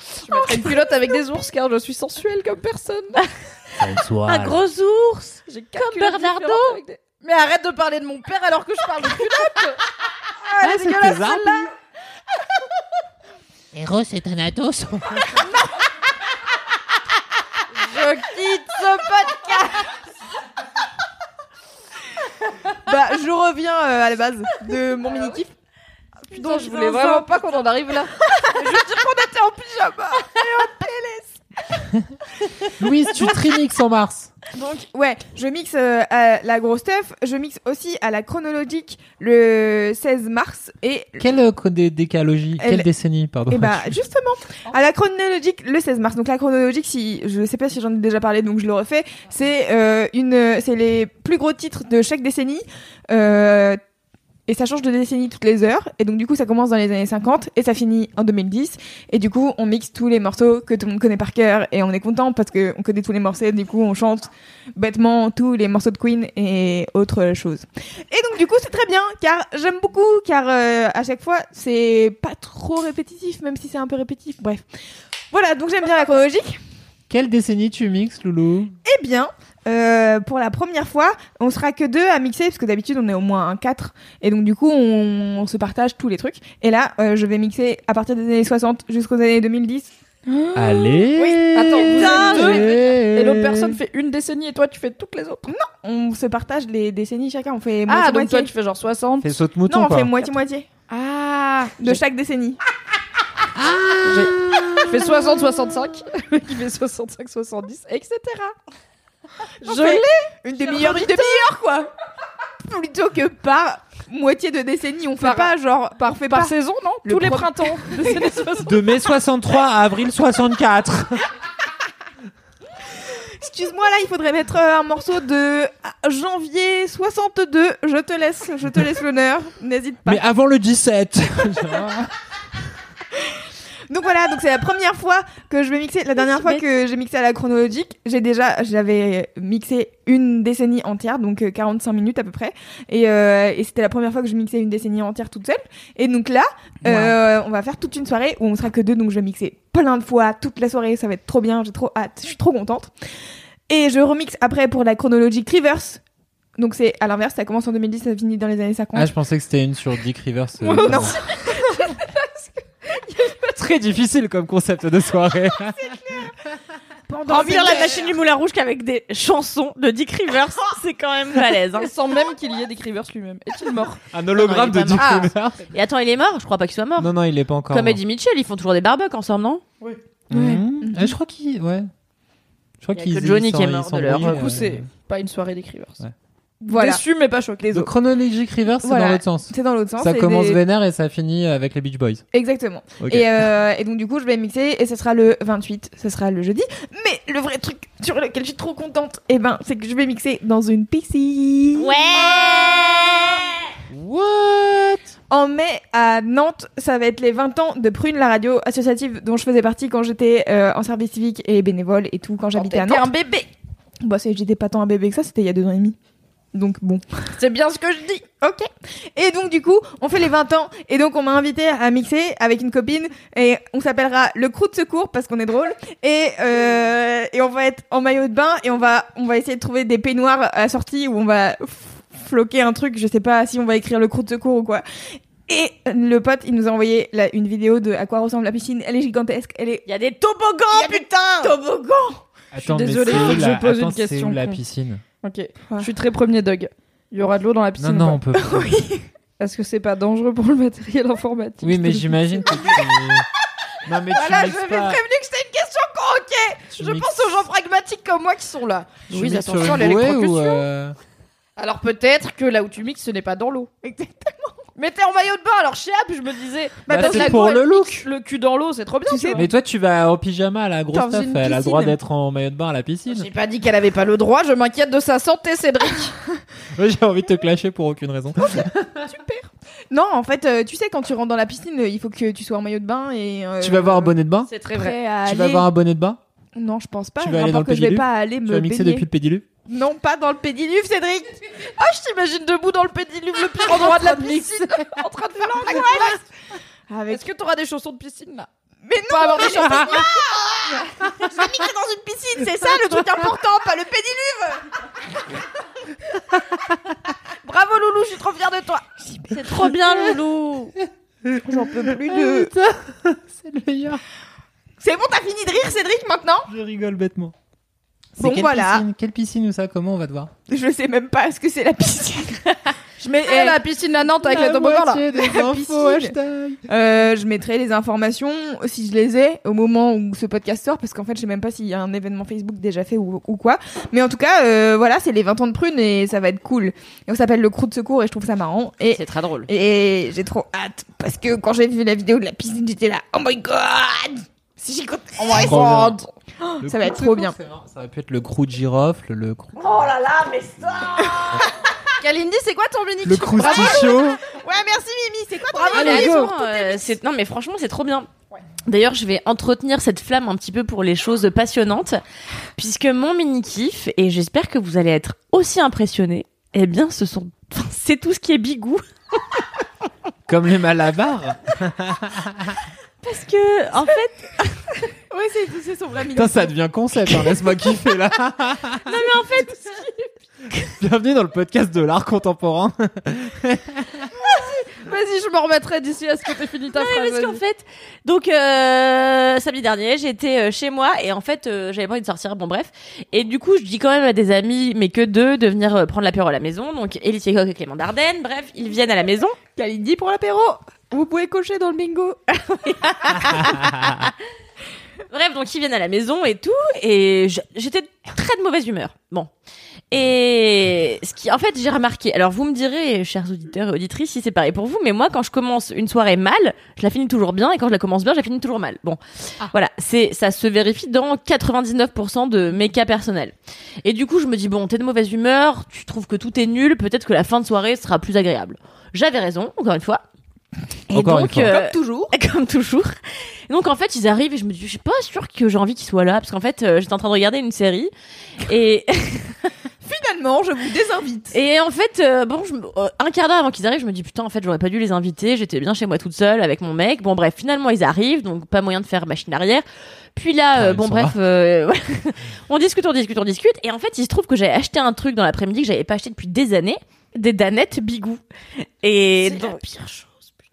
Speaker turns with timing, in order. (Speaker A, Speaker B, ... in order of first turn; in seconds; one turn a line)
Speaker A: 0.2-3.3
Speaker B: 0.3-0.8
Speaker C: 3.8-4.6
Speaker D: 4.2-6.8
Speaker A: 5.5-9.8
Speaker A: 10.5-11.6
Speaker C: 10.6-11.7
Speaker C: 13.7-15.5
Speaker A: 17.7-19.9
Speaker B: 22.8-25.5
Speaker D: 26.3-27.2
Speaker A: 26.3-29.6
Speaker B: 28.2-31.4
Speaker C: 32.6-34.3
Speaker B: 34.5-41.3
Speaker C: 41.2-44.0
Speaker B: 42.6-42.9
Speaker B: 43.5-53.8
Speaker B: 54.5-74.6
Speaker B: 75.3-76.6
Speaker C: 77.1-78.8
Speaker B: 78.8-90.8
Speaker C: 90.5-93.8
Speaker A: 91.2-95.5
Speaker B: 92.0-92.6
Speaker B: 95.5-98.5
Speaker A: 97.9-99.3
Speaker C: 99.2-100.1
Speaker B: 99.7-100.7
Speaker A: 100.9-102.0
Speaker B: 101.8-102.6
Speaker C: 103.5-105.4
Speaker A: 104.0-108.5
Speaker B: 109.6-111.9
Speaker A: 109.6-111.4
Speaker B: 112.6-118.5
Speaker A: 115.2-118.8
Speaker C: 118.6-121.3
Speaker B: 123.1-130.2
Speaker C: 130.1-132.1
Speaker B: 133.9-152.9
Speaker D: 136.3-136.6
Speaker C: 146.9-147.1
Speaker B: 153.7-156.0
Speaker B: 156.6-159.1
Speaker C: 158.9-161.2
Speaker A: 160.6-162.0
Speaker B: 160.8-162.2
Speaker C: 163.4-166.0
Speaker A: 167.1-168.1
Speaker D: 167.3-171.9
Speaker B: 167.3-167.8
Speaker A: 171.8-174.0
Speaker C: 174.1-175.6
Speaker D: 174.3-175.2
Speaker A: 175.0-175.3
Speaker D: 175.7-177.1
Speaker C: 177.0-178.0
Speaker D: 177.7-179.6
Speaker C: 180.3-181.9
Speaker B: 180.3-181.1
Speaker C: 182.8-184.9
Speaker D: 182.9-184.4
Speaker A: 184.2-186.0
Speaker B: 186.6-187.0
Speaker A: 186.7-187.8
Speaker C: 187.7-192.2
Speaker B: 188.8-190.6
Speaker B: 192.3-203.1
Speaker C: 193.0-193.5
Speaker D: 201.8-203.4
Speaker C: 203.9-205.1
Speaker B: 205.3-213.1
Speaker A: 212.6-213.5
Speaker B: 214.0-215.9
Speaker B: 216.5-217.1
Speaker A: 217.4-218.2
Speaker B: 218.4-234.8
Speaker B: 235.4-239.9
Speaker D: 239.9-241.6
Speaker B: 240.7-242.2
Speaker C: 242.5-245.0
Speaker A: 242.6-244.6
Speaker A: 245.2-248.2
Speaker C: 247.8-248.8
Speaker B: 248.3-249.1
Speaker A: 249.4-252.8
Speaker C: 251.6-253.3
Speaker C: 253.8-255.0
Speaker A: 254.1-260.6
Speaker C: 256.7-257.3
Speaker C: 259.1-261.0
Speaker A: 261.6-263.7
Speaker B: 263.8-264.6
Speaker A: 264.8-269.5
Speaker B: 266.9-267.6
Speaker C: 266.9-268.1
Speaker B: 269.1-269.5
Speaker C: 269.4-273.3
Speaker A: 270.9-271.9
Speaker A: 273.1-276.1
Speaker C: 276.7-278.9
Speaker A: 279.1-279.5
Speaker B: 279.9-284.1
Speaker C: 283.6-284.5
Speaker A: 284.5-285.0
Speaker B: 284.7-285.7
Speaker C: 285.2-286.2
Speaker B: 286.6-289.1
Speaker C: 287.2-289.4
Speaker B: 289.7-291.4
Speaker A: 291.6-296.2
Speaker B: 293.6-294.7
Speaker B: 295.4-296.3
Speaker B: 296.9-297.3
Speaker A: 297.1-298.5
Speaker B: 298.9-304.6
Speaker A: 299.1-300.1
Speaker A: 301.2-301.7
Speaker A: 307.4-308.9
Speaker D: 309.3-310.7
Speaker C: 311.2-314.0
Speaker B: 311.4-312.5
Speaker B: 314.8-316.5
Speaker C: 316.5-317.3
Speaker C: 318.2-320.3
Speaker B: 318.2-318.9
Speaker B: 320.5-323.6
Speaker A: 323.0-325.0
Speaker C: 324.2-326.6
Speaker B: 325.1-326.1
Speaker B: 326.7-345.6
Speaker D: 338.9-339.5
Speaker A: 345.2-346.1
Speaker C: 345.3-346.0
Speaker B: 346.4-347.4
Speaker C: 346.6-349.5
Speaker D: 349.6-351.5
Speaker A: 352.0-354.1
Speaker C: 353.0-354.2
Speaker B: 353.4-356.3
Speaker A: 355.5-356.9
Speaker D: 355.6-358.1
Speaker C: 355.7-356.3
Speaker D: 358.6-362.0
Speaker D: 362.6-368.8
Speaker C: 370.3-372.6
Speaker D: 373.0-374.8
Speaker B: 375.1-376.5
Speaker C: 376.1-379.1
Speaker D: 378.9-379.9
Speaker C: 380.7-384.1
Speaker A: 384.2-387.4
Speaker D: 386.7-399.4
Speaker B: 399.6-402.2
Speaker D: 402.6-404.1
Speaker D: 405.1-409.3
Speaker D: 409.9-430.0
Speaker D: 430.9-432.9
Speaker C: 430.9-431.6
Speaker B: 431.4-432.1
Speaker D: 433.5-437.9
Speaker D: 438.4-439.5
Speaker B: 439.8-441.4
Speaker D: 441.3-449.6
Speaker D: 450.2-459.6
Speaker C: 450.5-451.2
Speaker A: 459.2-460.1